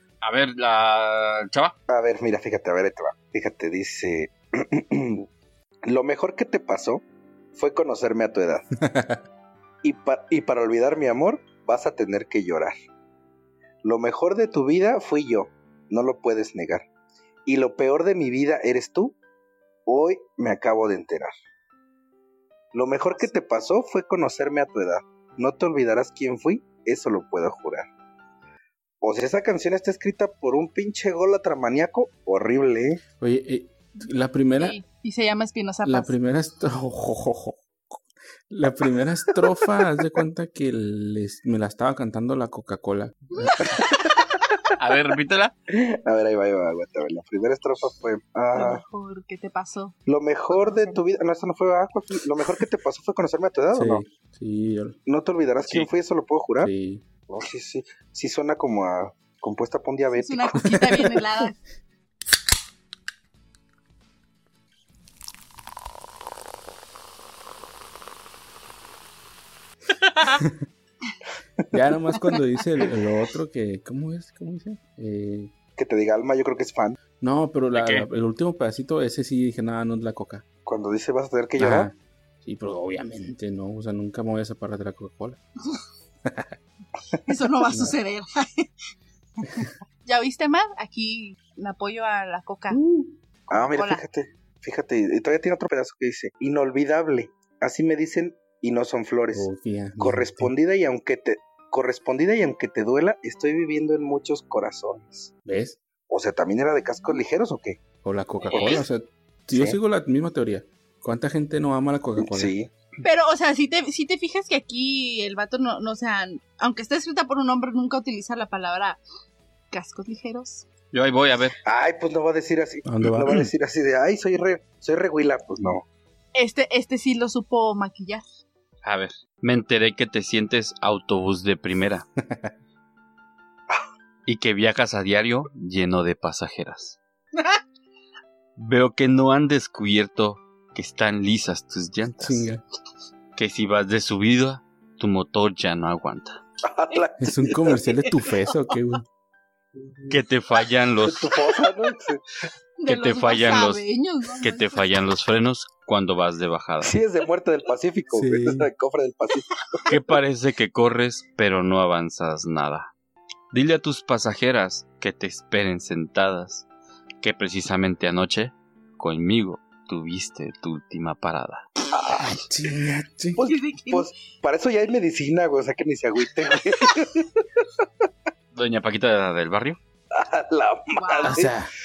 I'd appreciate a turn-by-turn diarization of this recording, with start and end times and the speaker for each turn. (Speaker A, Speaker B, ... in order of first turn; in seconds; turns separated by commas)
Speaker A: 0.2-1.8, Speaker B: 1.9-5.3, Speaker B: 5.9-8.7, Speaker C: 8.8-9.2, Speaker B: 9.8-12.8, Speaker B: 13.8-16.9, Speaker B: 17.5-19.2, Speaker B: 19.9-21.3, Speaker B: 22.7-27.9, Speaker B: 29.0-33.0, Speaker C: 33.2-34.8, Speaker D: 34.6-36.1, Speaker C: 35.8-37.6, Speaker C: 38.5-43.5, Speaker B: 43.6-44.0, Speaker A: 44.8-45.5, Speaker B: 45.7-48.8, Speaker D: 48.5-50.0, Speaker B: 50.1-54.0, Speaker D: 50.5-51.0, Speaker C: 53.7-55.0, Speaker B: 55.1-56.7, Speaker A: 55.6-55.9, Speaker C: 56.6-57.0, Speaker B: 57.3-60.7, Speaker D: 60.1-61.6, Speaker C: 60.6-61.2, Speaker A: 70.0-70.4, Speaker C: 71.7-75.5, Speaker B: 75.8-77.0, Speaker C: 77.2-80.4, Speaker A: 77.8-78.1, Speaker B: 80.7-81.9, Speaker C: 81.6-85.4, Speaker C: 86.3-86.5, Speaker D: 87.2-88.7, Speaker D: 89.5-92.8, Speaker C: 92.8-93.0, Speaker B: 93.5-99.5, Speaker D: 93.5-94.0, Speaker C: 99.3-100.5, Speaker B: 100.0-105.3, Speaker C: 105.5-105.8, Speaker B: 106.1-107.8, Speaker D: 106.8-107.2, Speaker C: 108.0-112.5, Speaker A: 108.5-108.8, Speaker B: 109.5-109.8, Speaker B: 112.2-112.7, Speaker D: 113.0-119.0, Speaker D: 119.7-120.7, Speaker A: 120.9-121.6, Speaker B: 121.7-125.8, Speaker C: 122.8-123.5, Speaker D: 126.3-128.2, Speaker A: 128.8-132.1, Speaker C: 132.2-132.5, Speaker A: 134.3-137.0, Speaker A: 138.6-142.5, Speaker C: 142.2-142.6, Speaker A: 143.4-146.4, Speaker B: 146.7-147.8, Speaker C: 147.2-149.1, Speaker B: 149.8-150.2, Speaker A: 150.1-151.4, Speaker B: 151.0-152.2, Speaker D: 152.8-154.9, Speaker A: 152.9-153.8, Speaker A: 154.4-157.0, Speaker B: 156.8-159.8, Speaker C: 158.1-158.7, Speaker A: 159.9-162.9, Speaker A: 163.5-166.7, Speaker A: 167.2-171.7, Speaker B: 171.9-172.4, Speaker C: 172.1-173.4, Speaker B: 173.3-177.7, Speaker D: 173.4-174.1, Speaker A: 178.5-179.8, Speaker B: 180.1-181.6, Speaker D: 180.9-181.4, Speaker C: 181.3-181.7